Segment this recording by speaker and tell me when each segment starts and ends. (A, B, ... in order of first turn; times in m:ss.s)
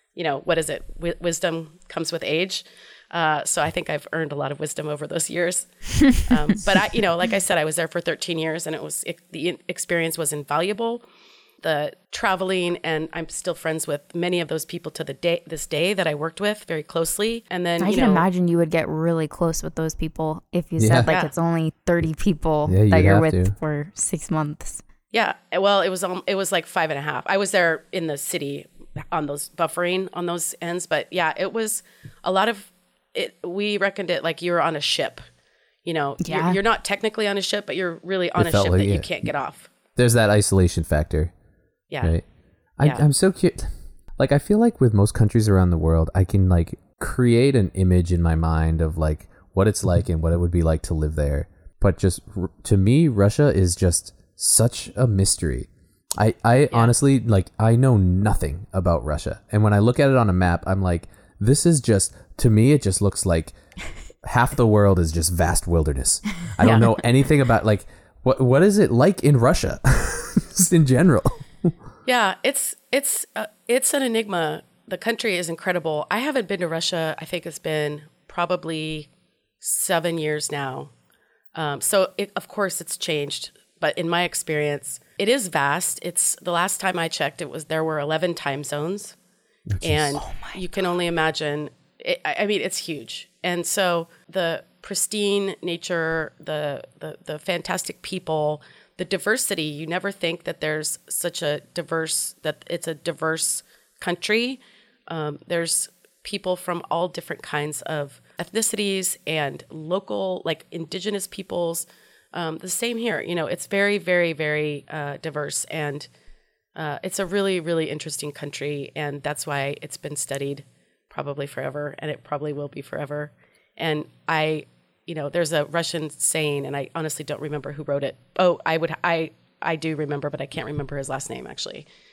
0:00.1-0:11.0 A
0:11.6-0:18.2 A
0:17.8-0:24.8 B
0:20.8-0:21.1 C
0:22.7-0:23.5 C
0:25.1-0:35.2 A
0:35.8-0:39.7 A
0:36.2-0:36.6 B
0:38.4-0:39.3 C
0:40.0-0:41.3 C
0:41.9-0:42.2 A
0:42.8-1:03.5 C
1:04.2-1:11.7 C
1:06.6-1:06.9 A
1:12.0-1:19.1 A
1:19.6-1:20.9 A
1:21.5-1:29.2 A
1:29.7-1:30.2 C
1:29.8-1:56.1 A
1:30.2-1:30.6 B
1:56.7-2:11.9 A